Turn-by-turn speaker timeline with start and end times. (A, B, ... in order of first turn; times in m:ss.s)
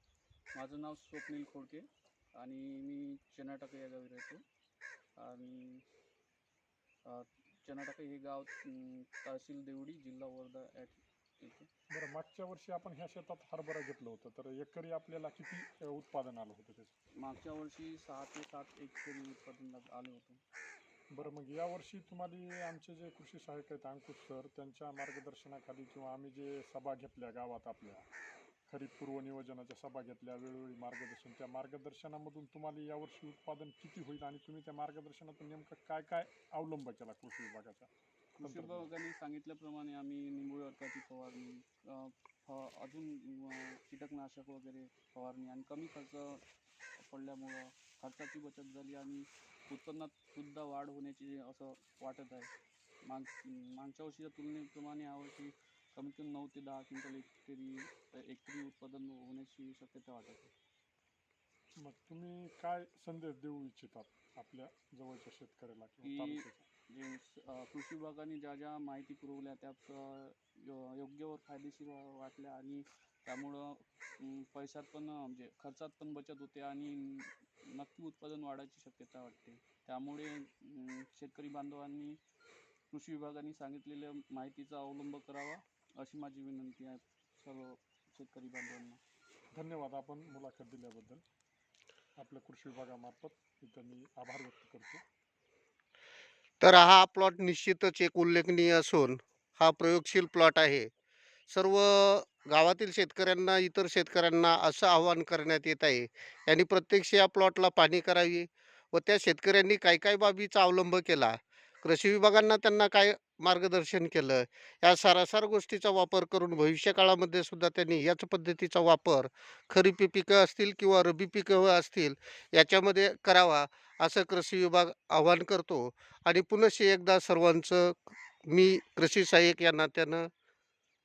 0:00.5-0:04.4 A
0:05.2-0:05.8 A
0:07.0-0:11.7 A
0:11.9-0:16.9 B
0:17.2-0:20.4 A
0:21.1-0:28.1 B
0:28.7-0:38.9 B
0:38.4-0:46.4 A
0:47.0-0:52.5 A
0:53.1-1:00.5 A
1:01.8-1:06.7 B
1:06.0-1:22.2 A
1:22.9-1:29.0 A
1:29.5-1:31.2 B
1:32.2-1:35.0 B
1:36.6-1:40.9 C
1:41.5-2:10.3 C